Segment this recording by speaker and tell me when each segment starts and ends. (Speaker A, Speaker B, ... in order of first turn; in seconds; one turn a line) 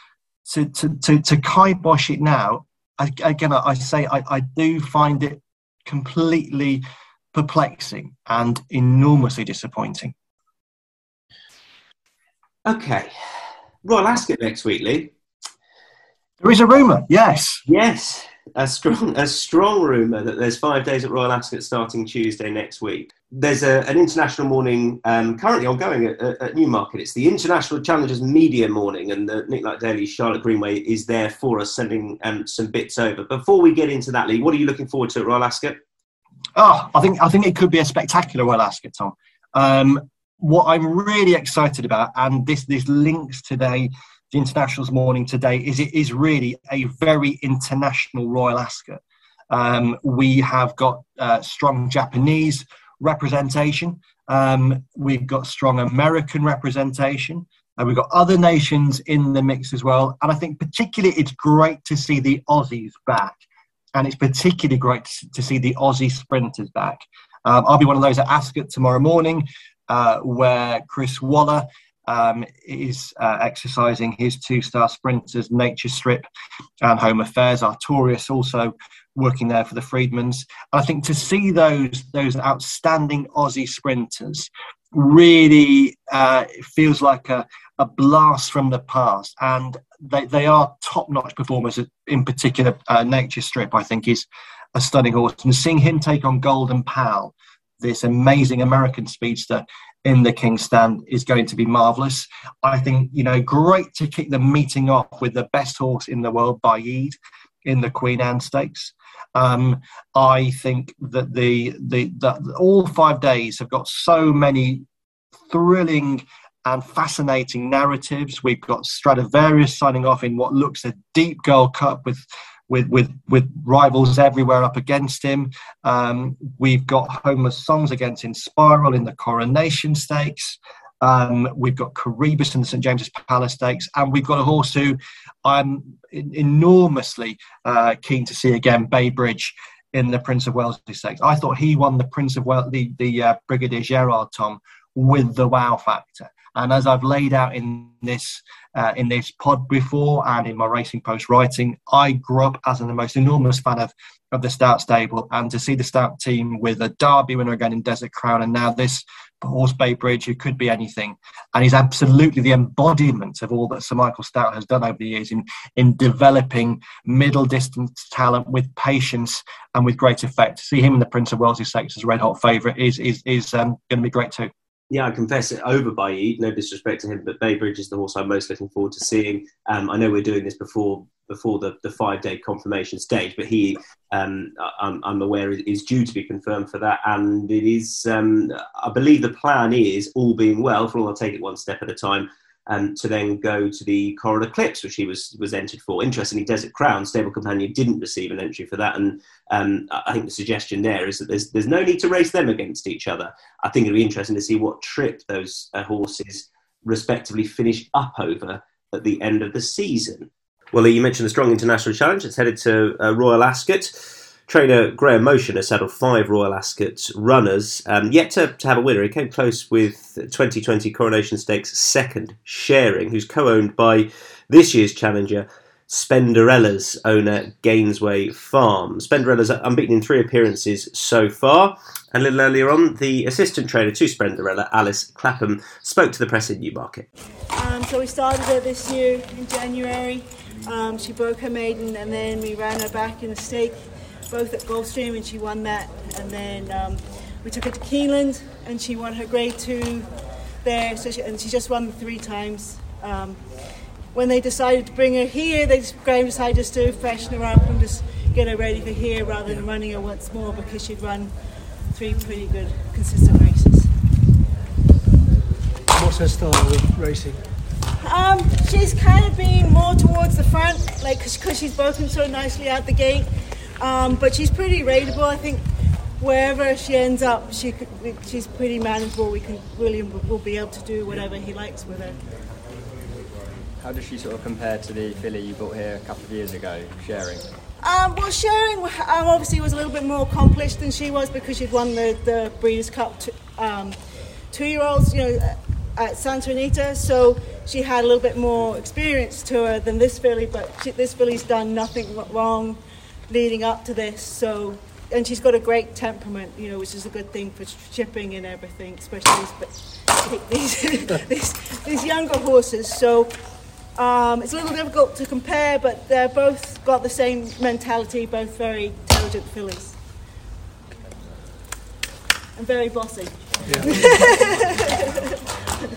Speaker A: 0.5-10.1
Speaker B: 12.7-13.1
Speaker B: 13.8-15.1
Speaker A: 16.4-17.6
Speaker B: 17.7-35.8
Speaker A: 36.5-63.4
Speaker A: 63.9-76.3
Speaker A: 76.8-114.8
Speaker A: 115.5-174.5
Speaker B: 174.9-237.0
Speaker C: 237.6-243.8
Speaker C: 244.3-250.1
Speaker C: 250.6-253.4
Speaker C: 254.1-261.3
Speaker C: 261.9-263.9
Speaker D: 265.9-267.4
Speaker C: 268.0-273.3
Speaker C: 273.8-275.6
Speaker C: 276.2-282.2
Speaker E: 283.8-287.4
Speaker C: 287.8-294.0
Speaker C: 294.5-313.3
Speaker C: 313.9-320.0
Speaker C: 322.6-325.1
Speaker D: 323.6-324.1